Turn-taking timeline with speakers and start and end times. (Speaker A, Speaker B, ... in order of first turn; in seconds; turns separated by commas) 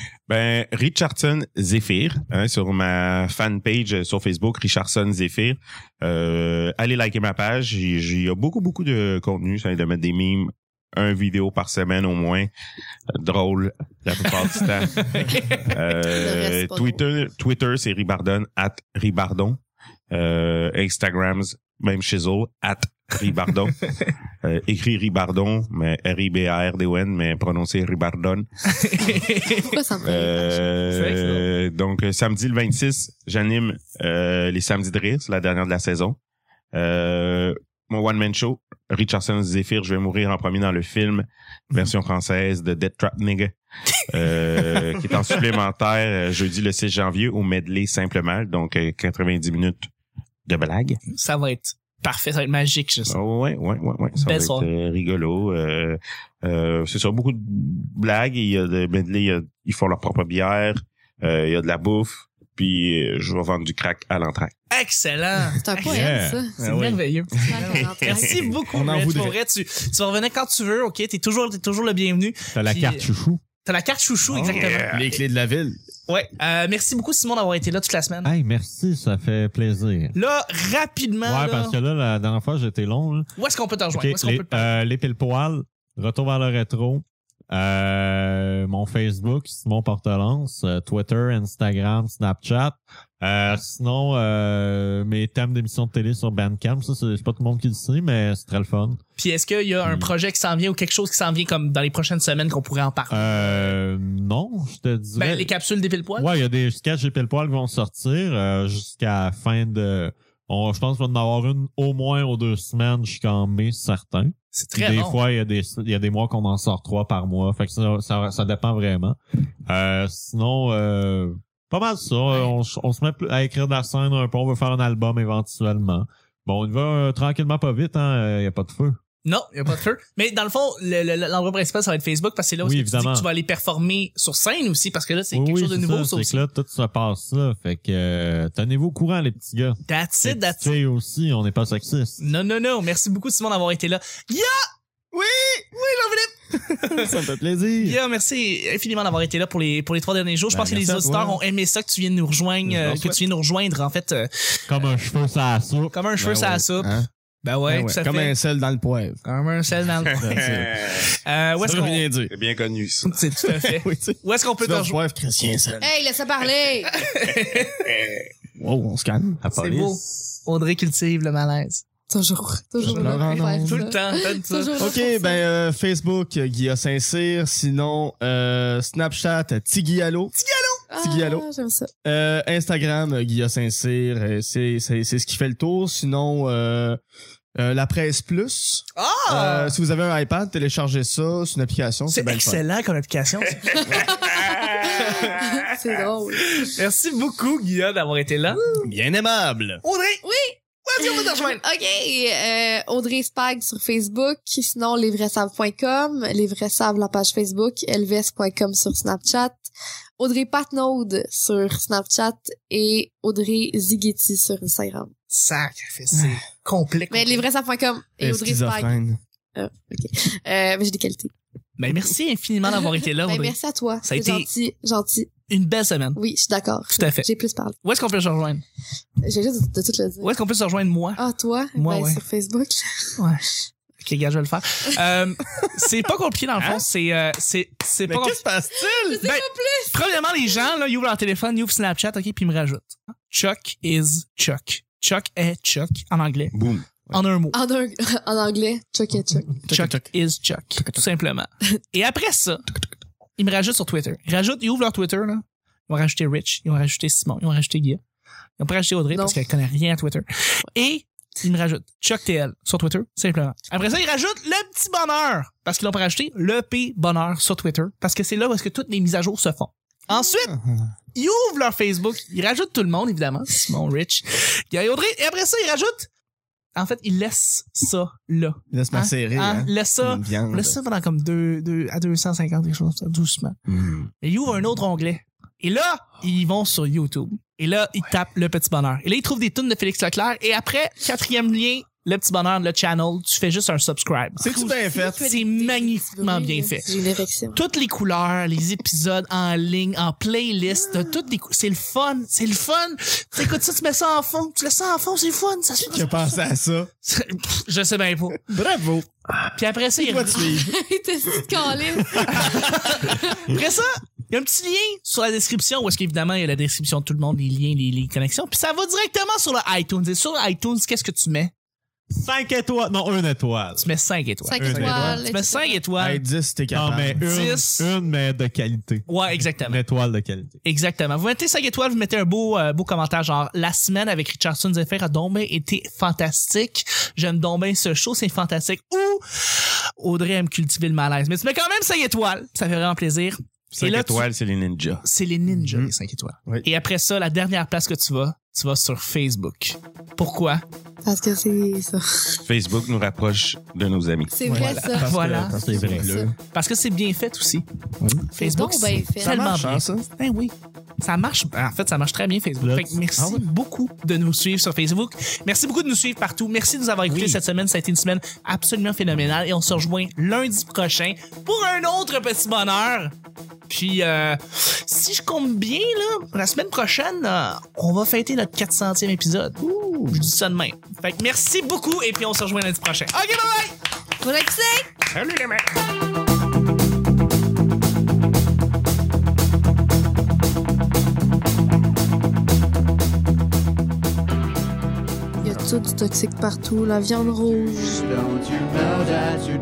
Speaker A: 0.3-12.5, Speaker A: 13.1-19.6, Speaker B: 14.9-15.7, Speaker C: 16.1-17.0, Speaker A: 20.1-23.9, Speaker A: 24.4-28.4, Speaker B: 28.7-29.8, Speaker C: 29.6-30.6, Speaker A: 30.0-36.2, Speaker B: 30.9-31.5, Speaker A: 36.7-43.5, Speaker B: 44.0-45.3, Speaker A: 44.1-49.9, Speaker A: 50.5-51.0, Speaker B: 51.1-53.2, Speaker A: 53.1-64.5, Speaker B: 54.2-54.7, Speaker B: 64.7-73.1, Speaker C: 65.6-66.5, Speaker D: 65.8-66.4, Speaker E: 66.6-67.6, Speaker C: 67.5-68.4, Speaker A: 67.6-68.5, Speaker E: 68.7-69.4, Speaker D: 72.5-73.4, Speaker B: 73.6-75.0, Speaker E: 74.2-75.8, Speaker A: 74.4-75.0, Speaker B: 76.1-78.3, Speaker D: 78.2-80.1, Speaker B: 80.1-81.7, Speaker D: 81.2-83.3, Speaker B: 83.4-84.7, Speaker D: 83.9-99.0, Speaker B: 99.2-103.8, Speaker D: 99.8-100.1, Speaker D: 103.1-105.5, Speaker B: 105.2-106.4, Speaker D: 106.2-129.0, Speaker B: 114.5-115.2, Speaker B: 129.2-136.4, Speaker D: 132.6-133.3, Speaker D: 135.3-142.2, Speaker B: 139.8-140.7, Speaker B: 142.2-144.6, Speaker E: 145.1-148.0, Speaker B: 146.6-147.2, Speaker B: 147.8-154.8, Speaker E: 150.5-151.4, Speaker E: 152.6-153.2, Speaker D: 154.7-155.9, Speaker B: 155.9-158.3, Speaker E: 156.2-157.1, Speaker E: 157.7-159.2, Speaker B: 159.2-162.1, Speaker A: 160.1-161.1, Speaker E: 160.2-160.7, Speaker E: 161.6-162.3, Speaker A: 162.3-163.2, Speaker B: 163.1-165.0, Speaker E: 163.4-165.9, Speaker C: 165.8-167.1, Speaker B: 166.9-167.9, Speaker A: 167.7-168.2, Speaker E: 168.6-169.4, Speaker D: 169.4-170.3, Speaker B: 169.5-171.8, Speaker C: 172.1-175.4, Speaker E: 172.8-173.9, Speaker B: 172.8-174.8, Speaker E: 174.8-180.3, Speaker B: 180.3-180.8, Speaker C: 180.9-181.9, Speaker E: 181.0-181.5, Speaker E: 182.0-187.0, Speaker E: 187.6-192.6, Speaker B: 188.9-189.8, Speaker B: 192.1-194.1, Speaker C: 193.8-196.8, Speaker B: 195.0-195.3, Speaker B: 196.6-198.6, Speaker E: 198.7-199.8, Speaker B: 199.8-200.2, Speaker C: 200.2-209.7, Speaker B: 200.8-201.6, Speaker C: 210.2-215.1, Speaker B: 215.3-217.4, Speaker C: 217.1-219.0, Speaker E: 218.2-219.2, Speaker C: 219.6-221.3, Speaker B: 221.8-224.5, Speaker C: 223.2-225.3, Speaker B: 225.5-226.2, Speaker C: 226.1-227.8, Speaker B: 226.9-227.3, Speaker B: 227.8-228.6, Speaker C: 229.2-230.3, Speaker B: 230.2-231.2, Speaker C: 231.2-233.1, Speaker B: 231.7-232.2, Speaker B: 233.2-238.4, Speaker E: 236.6-236.8, Speaker E: 238.1-239.2, Speaker C: 238.8-240.6, Speaker B: 239.2-247.6, Speaker A: 246.5-246.9, Speaker C: 247.5-249.6, Speaker E: 249.7-250.1, Speaker B: 249.7-252.7, Speaker E: 250.8-251.0, Speaker B: 253.4-258.0, Speaker B: 258.6-270.5, Speaker C: 259.1-259.4, Speaker C: 270.1-270.5, Speaker E: 270.5-270.9, Speaker B: 271.1-276.1, Speaker B: 276.7-283.6, Speaker E: 278.7-280.8, Speaker E: 283.7-284.1, Speaker B: 284.2-297.0, Speaker E: 294.4-295.3, Speaker C: 294.9-297.6, Speaker B: 297.5-306.4, Speaker E: 305.8-306.9, Speaker B: 307.0-308.6, Speaker E: 308.5-309.1, Speaker B: 309.5-310.5, Speaker E: 310.0-310.8, Speaker C: 310.4-313.6, Speaker B: 312.3-321.5, Speaker D: 322.1-323.9, Speaker B: 323.8-326.2, Speaker C: 324.4-325.8, Speaker D: 324.6-325.2, Speaker E: 326.0-327.4, Speaker D: 326.7-330.6, Speaker B: 327.2-327.9, Speaker B: 329.1-329.8, Speaker B: 330.6-344.3, Speaker A: 343.8-345.0, Speaker B: 345.0-350.6, Speaker E: 345.5-345.9, Speaker C: 351.0-352.0, Speaker A: 352.4-354.4, Speaker C: 354.3-355.1, Speaker E: 354.4-356.4, Speaker B: 354.4-355.6, Speaker D: 355.5-356.1, Speaker C: 355.7-356.3, Speaker B: 356.5-357.6, Speaker E: 358.0-358.3, Speaker B: 358.3-373.1, Speaker C: 358.4-359.6, Speaker E: 359.2-360.1, Speaker D: 362.6-363.0, Speaker E: 363.2-363.4, Speaker E: 367.1-367.4, Speaker B: 373.7-379.6, Speaker E: 379.6-380.3, Speaker B: 380.1-383.7, Speaker C: 384.2-385.0, Speaker C: 395.4-398.2